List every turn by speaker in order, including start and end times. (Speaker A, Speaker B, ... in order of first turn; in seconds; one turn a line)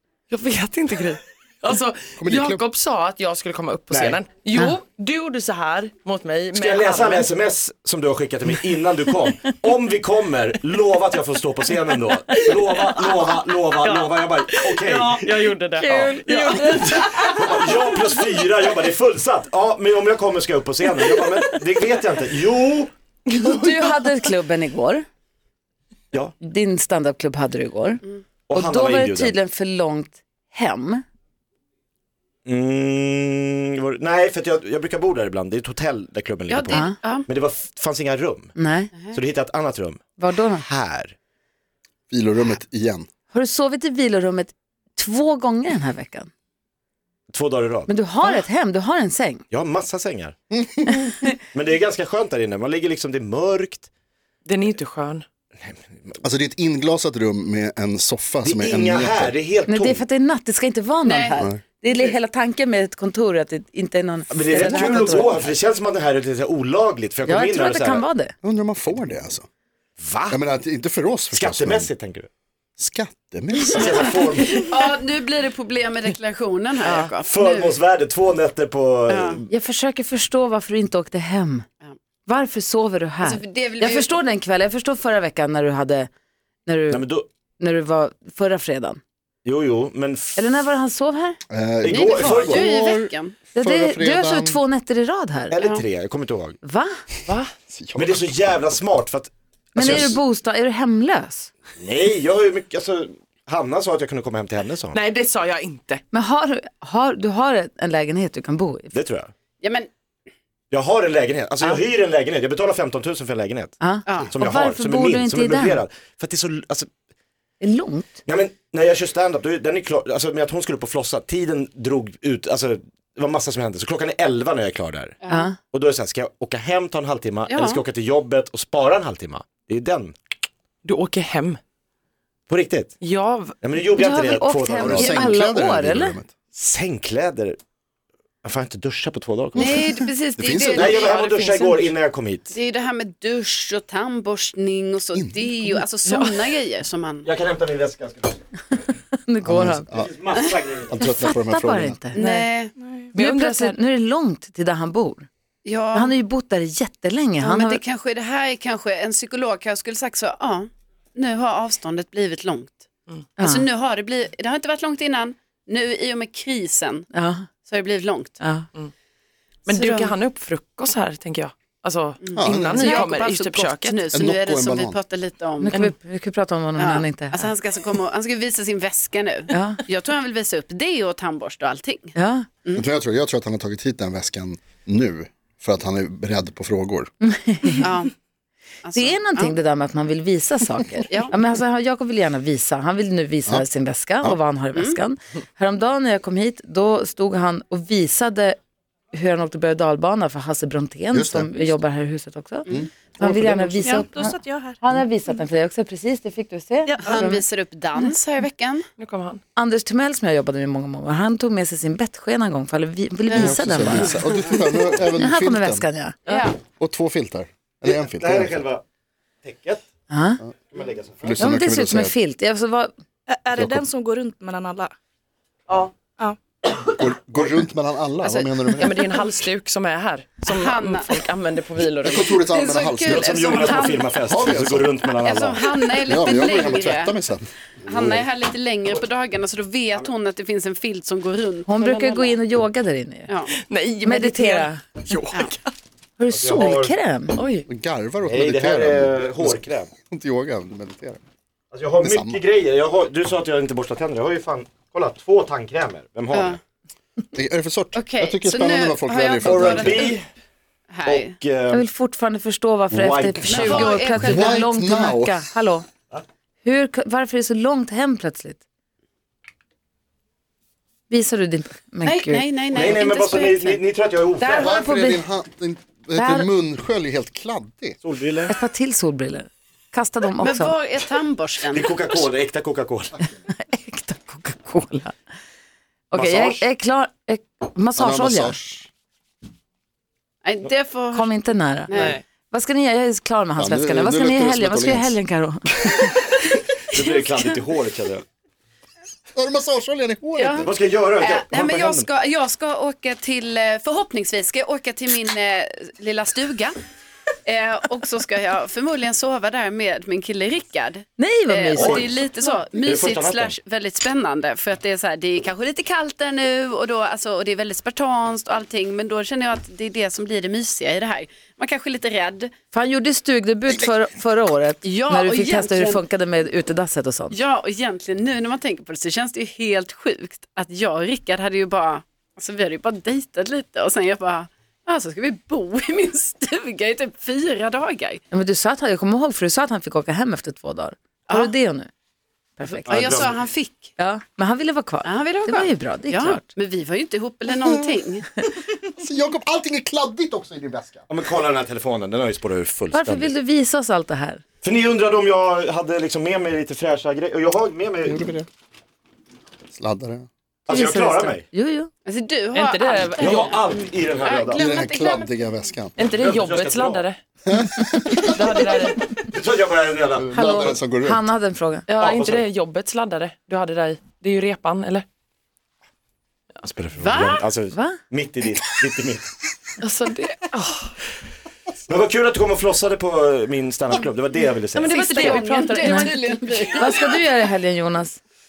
Speaker A: 0.3-7.3
Speaker B: 2.2-2.6
Speaker C: 3.9-4.2
Speaker C: 6.5-15.3
Speaker A: 12.3-18.1
Speaker D: 15.8-17.8
Speaker C: 15.8-22.9
Speaker D: 23.3-25.1
Speaker A: 23.6-24.0
Speaker D: 26.4-31.0
Speaker C: 28.5-29.4
Speaker C: 32.5-38.6
Speaker E: 36.5-37.3
Speaker D: 38.6-38.9
Speaker C: 39.1-40.0
Speaker D: 40.2-40.6
Speaker C: 40.5-41.1
Speaker B: 42.1-43.1
Speaker D: 43.3-46.3
Speaker C: 47.3-47.9
Speaker D: 47.9-49.5
Speaker C: 49.5-50.4
Speaker B: 50.5-51.1
Speaker C: 51.5-53.9
Speaker A: 54.5-55.2
Speaker C: 55.6-56.2
Speaker B: 56.2-59.3
Speaker C: 58.5-60.0
Speaker D: 59.7-65.4
Speaker E: 61.0-61.4
Speaker B: 61.4-61.6
Speaker C: 64.3-68.1
Speaker D: 67.3-68.3
Speaker B: 68.4-69.5
Speaker C: 70.0-70.4
Speaker B: 70.3-71.9
Speaker C: 71.3-72.3
Speaker B: 72.8-73.9
Speaker E: 73.7-77.8
Speaker C: 73.7-74.8
Speaker C: 76.9-79.5
Speaker E: 79.1-79.4
Speaker D: 79.5-81.7
Speaker D: 82.3-86.1
Speaker E: 83.2-84.1
Speaker D: 86.7-87.0
Speaker C: 86.9-87.3
Speaker D: 87.6-89.0
Speaker C: 89.5-90.6
Speaker D: 90.4-91.4
Speaker B: 91.5-94.6
Speaker C: 91.8-92.7
Speaker E: 91.9-93.4
Speaker D: 93.5-95.6
Speaker C: 95.5-96.6
Speaker E: 95.6-95.8
Speaker D: 96.6-97.0
Speaker A: 97.3-97.5
Speaker B: 97.7-98.3
Speaker C: 98.0-100.2
Speaker D: 99.8-101.5
Speaker C: 101.8-105.0
Speaker A: 104.9-106.0
Speaker D: 106.1-108.9
Speaker C: 108.9-109.3
Speaker E: 109.6-109.9
Speaker C: 110.7-116.9
Speaker D: 113.8-115.8
Speaker E: 114.1-114.3
Speaker D: 117.6-118.2
Speaker C: 118.3-130.2
Speaker E: 125.2-125.5
Speaker D: 125.3-125.6
Speaker E: 127.5-127.8
Speaker A: 130.8-131.6
Speaker C: 132.5-132.9
Speaker A: 133.0-133.6
Speaker C: 133.6-135.3
Speaker D: 134.0-136.2
Speaker B: 134.8-136.3
Speaker C: 136.5-137.6
Speaker C: 138.4-139.8
Speaker B: 139.6-141.0
Speaker E: 139.6-141.2
Speaker C: 140.7-142.5
Speaker A: 140.9-141.9
Speaker E: 142.5-147.3
Speaker B: 145.2-145.4
Speaker A: 146.1-146.4
Speaker C: 147.2-148.4
Speaker D: 149.3-149.9
Speaker B: 149.4-150.1
Speaker C: 149.9-151.1
Speaker E: 150.3-150.6
Speaker B: 150.9-152.0
Speaker D: 151.0-152.5
Speaker E: 152.1-152.7
Speaker F: 152.8-153.1
Speaker A: 153.1-153.8
Speaker D: 153.1-155.3
Speaker E: 155.6-156.1
Speaker D: 155.9-157.8
Speaker E: 157.4-162.8
Speaker E: 163.4-167.1
Speaker D: 163.4-163.7
Speaker D: 167.1-167.5
Speaker E: 167.7-168.4
Speaker D: 168.4-168.7
Speaker A: 169.7-174.0
Speaker E: 169.7-170.1
Speaker E: 172.2-175.9
Speaker B: 172.4-172.9
Speaker B: 174.1-175.0
Speaker D: 175.6-177.5
Speaker E: 176.8-182.1
Speaker D: 179.5-179.8
Speaker D: 182.2-182.5
Speaker B: 182.8-187.1
Speaker D: 187.2-187.9
Speaker E: 187.8-188.1
Speaker E: 188.8-189.6
Speaker D: 188.9-198.6
Speaker E: 191.1-191.3
Speaker D: 199.1-207.4
Speaker B: 201.1-201.7
Speaker B: 202.7-204.0
Speaker F: 203.8-204.8
Speaker E: 207.0-208.8
Speaker A: 209.0-209.4
Speaker D: 209.6-214.2
Speaker E: 213.3-214.1
Speaker B: 213.3-215.9
Speaker D: 215.1-216.2
Speaker E: 216.3-216.6
Speaker B: 216.8-218.5
Speaker C: 217.9-218.8
Speaker C: 219.4-219.8
Speaker D: 220.1-220.4
Speaker C: 220.7-221.4
Speaker B: 221.2-222.2
Speaker D: 221.4-222.9
Speaker F: 223.3-224.9
Speaker B: 223.6-223.8
Speaker B: 227.0-229.1
Speaker A: 228.2-232.3
Speaker E: 230.5-231.3
Speaker B: 232.0-233.7
Speaker E: 232.2-234.2
Speaker C: 233.1-235.7
Speaker B: 234.2-234.9
Speaker E: 235.2-237.2
Speaker B: 236.1-238.3
Speaker E: 237.9-242.4
Speaker D: 241.7-243.3
Speaker A: 243.5-245.6
Speaker D: 244.0-244.9
Speaker D: 246.2-247.4
Speaker C: 246.3-246.9
Speaker A: 247.4-247.7
Speaker B: 247.7-251.2
Speaker C: 248.3-249.9
Speaker C: 251.7-256.6
Speaker B: 252.0-252.4
Speaker E: 256.3-256.6
Speaker B: 257.3-260.1
Speaker E: 257.9-260.2
Speaker C: 259.4-260.3
Speaker E: 260.9-261.4
Speaker C: 261.1-261.9
Speaker D: 261.7-265.9
Speaker C: 262.9-263.9
Speaker E: 263.4-264.6
Speaker B: 263.7-265.5
Speaker D: 266.6-268.6
Speaker D: 271.1-272.5
Speaker E: 272.0-273.8
Speaker C: 272.7-274.8
Speaker E: 274.4-274.6
Speaker B: 274.5-278.0
Speaker D: 274.5-275.2
Speaker D: 276.2-276.5
Speaker C: 278.0-278.5
Speaker D: 278.5-280.8
Speaker E: 280.4-282.2
Speaker C: 281.7-283.1
Speaker D: 283.5-285.1
Speaker D: 286.1-288.6
Speaker C: 286.1-286.6
Speaker B: 288.0-288.9
Speaker E: 290.4-292.2
Speaker D: 291.1-291.9
Speaker A: 291.9-292.2
Speaker D: 292.5-297.5
Speaker B: 293.6-295.2
Speaker C: 296.9-298.2
Speaker B: 299.4-300.7
Speaker E: 300.4-306.8
Speaker C: 300.6-302.1
Speaker E: 307.4-322.5
Speaker D: 311.2-312.1
Speaker C: 311.8-312.2
Speaker C: 312.8-313.6
Speaker D: 322.7-327.4
Speaker E: 324.8-326.0
Speaker E: 327.3-338.2
Speaker D: 338.3-341.9
Speaker D: 342.6-343.3
Speaker E: 342.6-343.9
Speaker C: 342.9-343.4
Speaker D: 344.0-346.4
Speaker E: 345.0-348.4
Speaker B: 347.6-347.9
Speaker B: 348.9-351.1
Speaker C: 351.1-353.3
Speaker D: 352.9-354.4
Speaker C: 354.6-358.3
Speaker B: 358.1-358.5
Speaker B: 359.7-360.3
Speaker C: 360.7-361.5
Speaker D: 360.7-361.9
Speaker E: 362.1-365.6
Speaker A: 362.5-363.7
Speaker C: 363.2-364.7
Speaker B: 364.5-365.9
Speaker A: 366.0-367.2
Speaker C: 366.1-367.1
Speaker B: 367.5-368.6
Speaker A: 368.1-369.1
Speaker C: 369.2-370.3
Speaker B: 370.1-371.3
Speaker D: 370.3-371.9
Speaker A: 371.9-375.1
Speaker C: 372.0-372.5
Speaker C: 376.6-379.2
Speaker E: 377.0-377.4
Speaker D: 377.7-378.0
Speaker A: 379.8-380.9
Speaker C: 381.9-385.0
Speaker A: 384.7-386.7
Speaker E: 384.9-387.1
Speaker D: 385.2-388.2